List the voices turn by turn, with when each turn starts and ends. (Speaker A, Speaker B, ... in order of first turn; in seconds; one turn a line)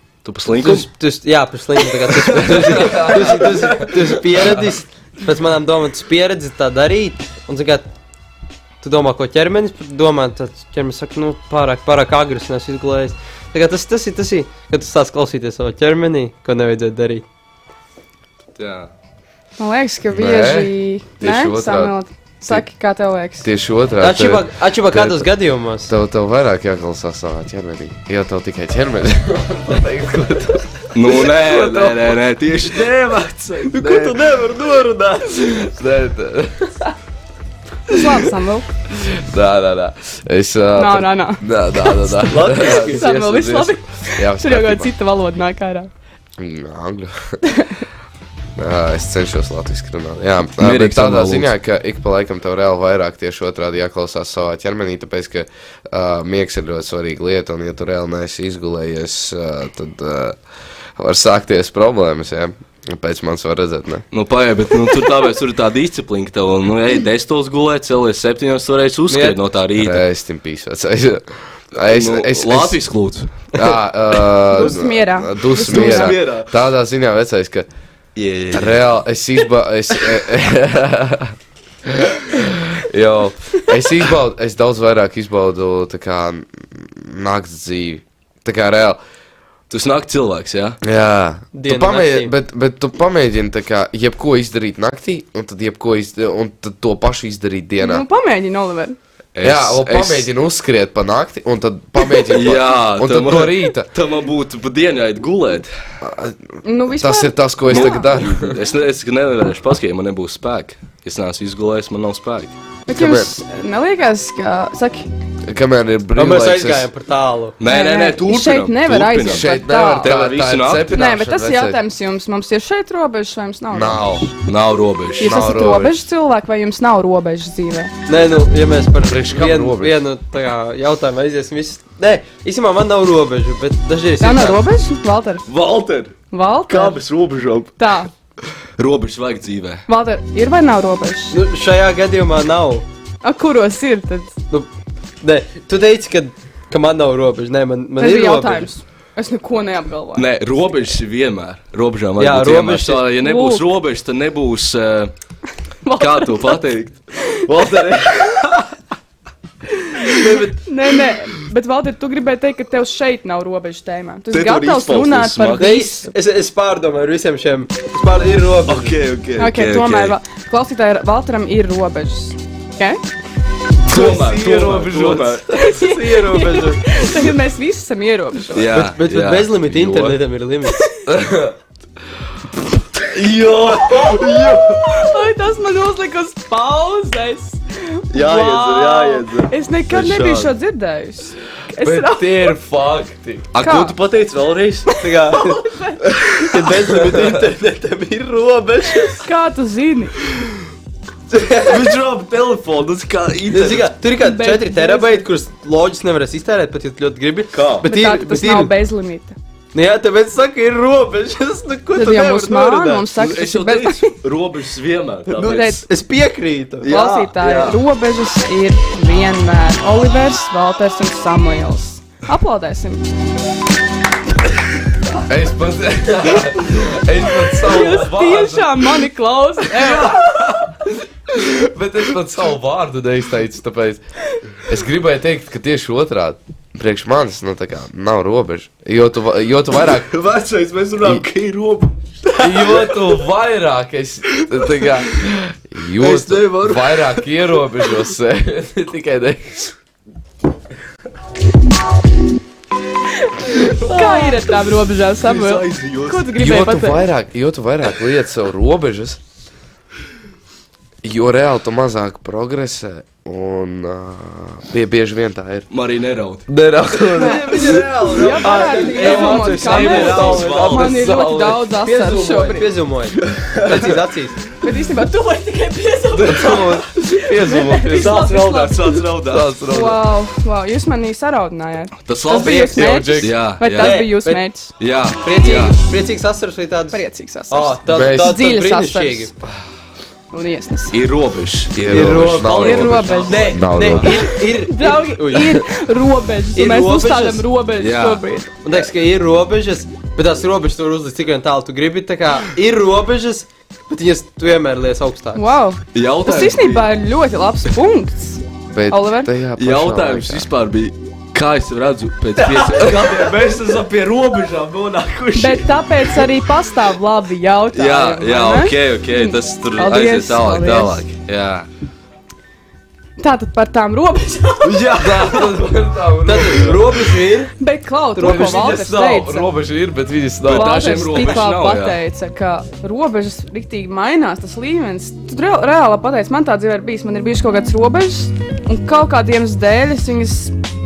Speaker A: 0.2-0.9
Speaker B: 0.5-7.8
Speaker A: 2.2-3.0
Speaker C: 2.4-4.6
Speaker B: 8.8-17.2
Speaker A: 18.6-18.9
Speaker D: 19.6-23.5
Speaker C: 20.1-21.9
Speaker C: 23.4-25.3
Speaker B: 24.0-25.9
Speaker C: 25.9-31.2
Speaker A: 30.9-34.2
Speaker B: 31.4-32.0
Speaker B: 33.7-35.5
Speaker C: 35.4-36.9
Speaker D: 37.9-38.6
Speaker C: 38.9-44.9
Speaker D: 40.8-45.9
Speaker B: 42.3-43.0
Speaker C: 46.4-47.4
Speaker D: 47.4-47.8
Speaker C: 48.5-60.4
Speaker A: 50.6-51.5
Speaker C: 61.0-64.0
Speaker A: 64.1-70.0
Speaker B: 69.1-69.4
Speaker C: 69.8-72.8
Speaker A: 71.9-73.7
Speaker C: 73.5-77.7
Speaker D: 74.5-76.2
Speaker A: 75.6-76.5
Speaker A: 78.2-78.8
Speaker C: 78.5-81.3
Speaker C: 81.8-89.0
Speaker A: 89.7-90.8
Speaker C: 90.8-98.0
Speaker B: 91.5-92.3
Speaker D: 97.8-99.0
Speaker A: 99.3-100.3
Speaker C: 99.4-103.9
Speaker A: 102.3-105.7
Speaker C: 106.0-106.4
Speaker D: 106.6-108.1
Speaker C: 107.0-108.6
Speaker A: 107.7-112.5
Speaker D: 112.9-115.1
Speaker C: 112.9-113.3
Speaker C: 115.5-116.9
Speaker B: 116.2-117.6
Speaker A: 117.6-121.0
Speaker D: 117.7-120.1
Speaker C: 119.2-121.8
Speaker D: 120.9-124.3
Speaker C: 123.7-124.3
Speaker A: 124.5-125.4
Speaker C: 125.2-126.0
Speaker D: 125.2-127.9
Speaker B: 128.1-134.6
Speaker C: 129.0-129.9
Speaker D: 134.2-135.5
Speaker A: 135.5-136.2
Speaker D: 136.3-137.0
Speaker A: 136.7-137.7
Speaker D: 137.8-138.1
Speaker A: 138.8-139.8
Speaker D: 139.9-141.4
Speaker B: 141.3-142.8
Speaker D: 143.2-144.3
Speaker B: 145.2-148.7
Speaker D: 148.0-150.2
Speaker A: 150.2-155.1
Speaker B: 152.2-153.1
Speaker D: 153.2-153.6
Speaker D: 155.8-156.6
Speaker A: 156.0-158.6
Speaker D: 159.9-166.1
Speaker A: 160.1-160.5
Speaker A: 164.3-165.8
Speaker B: 165.6-169.0
Speaker A: 168.7-170.2
Speaker D: 169.4-173.0
Speaker A: 173.8-175.6
Speaker C: 173.9-175.4
Speaker D: 175.5-178.7
Speaker B: 175.6-176.8
Speaker A: 178.5-180.2
Speaker B: 178.7-180.9
Speaker C: 181.1-181.5
Speaker A: 183.0-184.8
Speaker D: 183.7-192.6
Speaker A: 188.1-190.5
Speaker C: 191.8-193.5
Speaker A: 193.5-194.9
Speaker D: 193.6-194.0
Speaker D: 194.9-196.5
Speaker B: 194.9-195.7
Speaker B: 196.3-199.2
Speaker C: 197.0-197.2
Speaker D: 199.1-200.1
Speaker B: 201.3-202.0
Speaker A: 201.7-203.9
Speaker B: 203.5-208.7
Speaker D: 204.2-205.3
Speaker A: 207.5-207.9
Speaker D: 207.8-209.3
Speaker B: 209.7-213.1
Speaker D: 211.9-214.2
Speaker A: 213.1-215.8
Speaker B: 215.3-217.0
Speaker D: 215.4-215.8
Speaker A: 216.8-217.8
Speaker D: 216.8-223.1
Speaker C: 225.2-228.9
Speaker D: 227.6-230.4
Speaker A: 229.8-230.4
Speaker C: 231.3-234.0
Speaker C: 234.6-240.1
Speaker A: 239.9-243.0
Speaker C: 242.4-249.7
Speaker A: 244.3-244.9
Speaker A: 246.0-247.3
Speaker D: 253.4-257.1
Speaker A: 253.6-254.5
Speaker A: 255.2-256.3
Speaker C: 256.4-259.2
Speaker C: 261.0-265.7
Speaker A: 265.7-266.5
Speaker C: 266.5-268.0
Speaker B: 267.1-274.4
Speaker A: 267.7-271.6
Speaker D: 268.1-272.7
Speaker A: 273.3-273.8
Speaker D: 274.6-279.0
Speaker A: 276.2-276.8
Speaker C: 276.2-278.3
Speaker A: 277.9-279.5
Speaker C: 279.2-280.0
Speaker D: 279.6-284.7
Speaker A: 282.1-284.0
Speaker C: 282.5-283.4
Speaker B: 283.7-284.4
Speaker A: 284.8-285.8
Speaker B: 285.2-289.3
Speaker D: 285.4-285.7
Speaker D: 286.9-289.3
Speaker C: 287.9-288.4
Speaker D: 290.3-291.0
Speaker A: 290.9-293.4
Speaker C: 291.7-294.1
Speaker B: 291.9-295.6
Speaker D: 292.5-298.6
Speaker B: 296.6-297.4
Speaker A: 297.8-298.2
Speaker B: 298.6-305.5
Speaker D: 305.3-309.3
Speaker A: 305.9-306.9
Speaker C: 308.7-310.5
Speaker A: 309.6-315.7
Speaker B: 312.5-312.8
Speaker D: 315.3-321.0
Speaker A: 317.7-321.7
Speaker D: 323.2-324.9
Speaker A: 324.6-325.6
Speaker C: 325.0-327.0
Speaker B: 326.2-327.5
Speaker D: 327.6-329.5
Speaker B: 328.1-328.7
Speaker C: 328.2-331.1
Speaker A: 328.4-328.9
Speaker A: 330.4-332.0
Speaker D: 330.5-340.5